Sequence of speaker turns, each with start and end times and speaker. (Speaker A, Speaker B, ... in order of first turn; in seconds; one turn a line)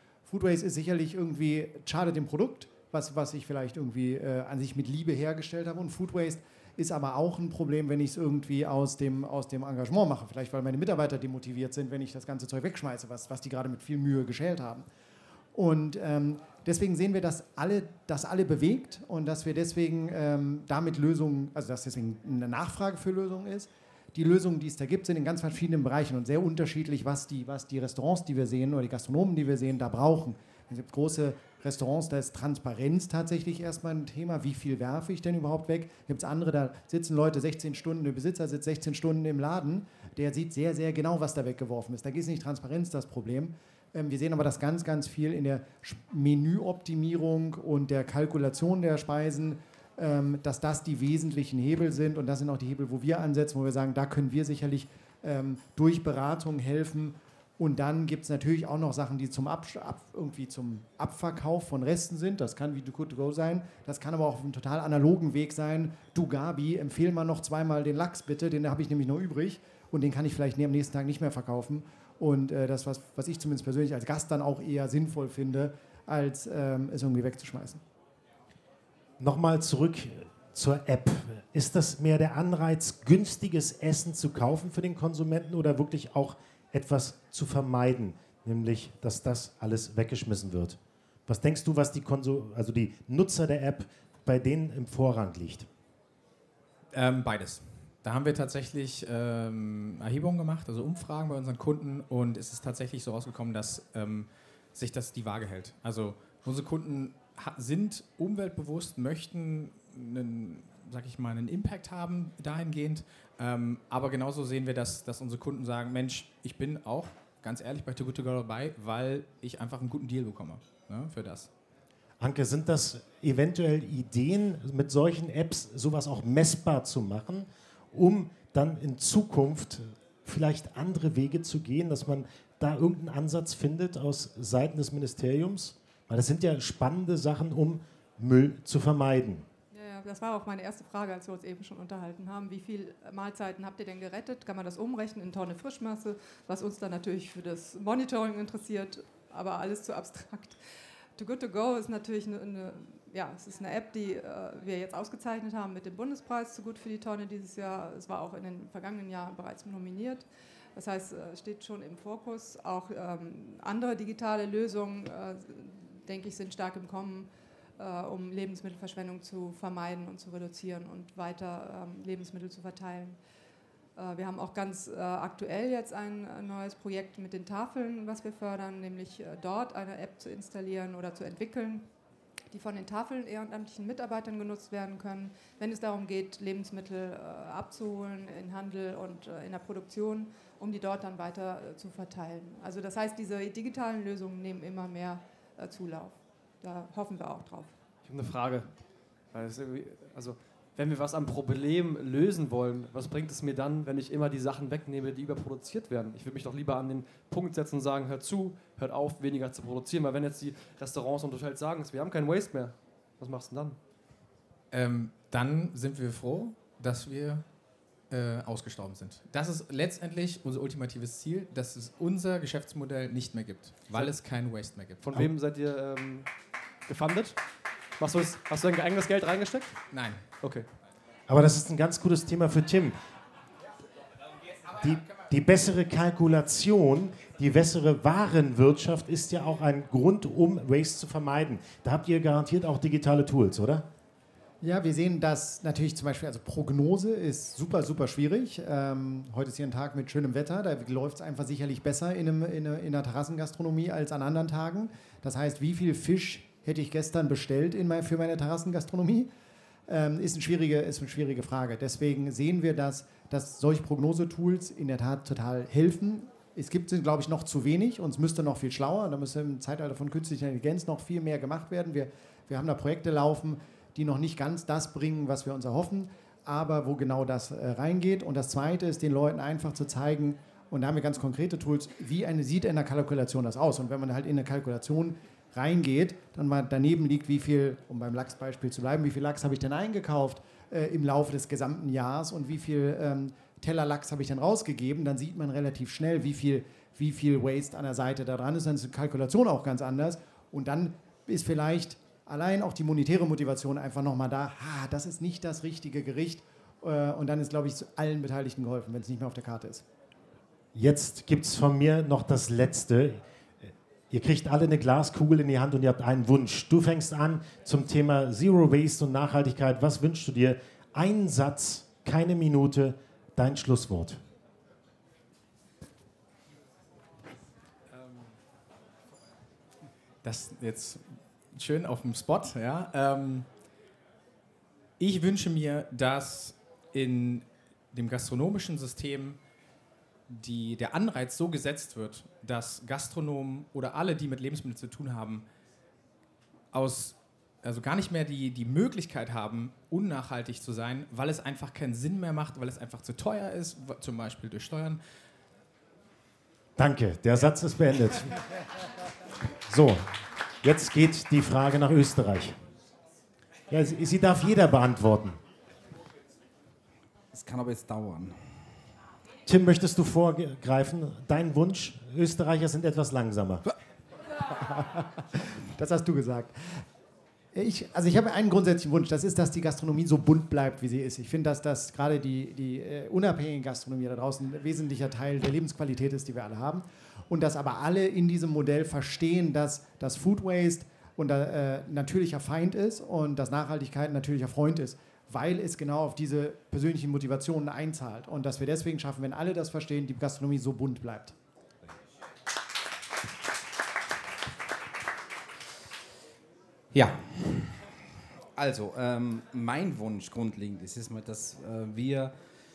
Speaker A: 0.2-14.8
Speaker A: 15.5-77.8
Speaker B: 79.2-95.7
Speaker C: 96.9-121.5
Speaker B: 122.2-139.4
Speaker D: 139.7-150.6
Speaker D: 151.1-173.2
Speaker D: 173.9-181.9
Speaker D: 182.5-197.8
Speaker E: 198.0-213.8
Speaker C: 214.7-217.4
Speaker C: 218.1-225.0
Speaker E: 225.0-226.3
Speaker E: 226.9-227.4
Speaker E: 228.0-230.7
Speaker C: 229.9-230.2
Speaker B: 231.3-232.9
Speaker B: 234.7-243.8
Speaker A: 244.6-259.3
Speaker A: 259.9-309.8
Speaker B: 310.7-313.2
Speaker B: 314.1-324.2
Speaker C: 330.2-333.4
Speaker C: 335.0-339.4
Speaker C: 340.3-345.4
Speaker C: 346.7-355.0
Speaker B: 356.8-358.6
Speaker B: 359.7-360.1
Speaker B: 360.6-362.6
Speaker B: 363.7-365.4
Speaker F: 367.3-368.4
Speaker B: 369.4-373.6
Speaker A: 374.7-376.6
Speaker A: 377.5-401.3
Speaker F: 406.9-407.8
Speaker F: 408.6-412.3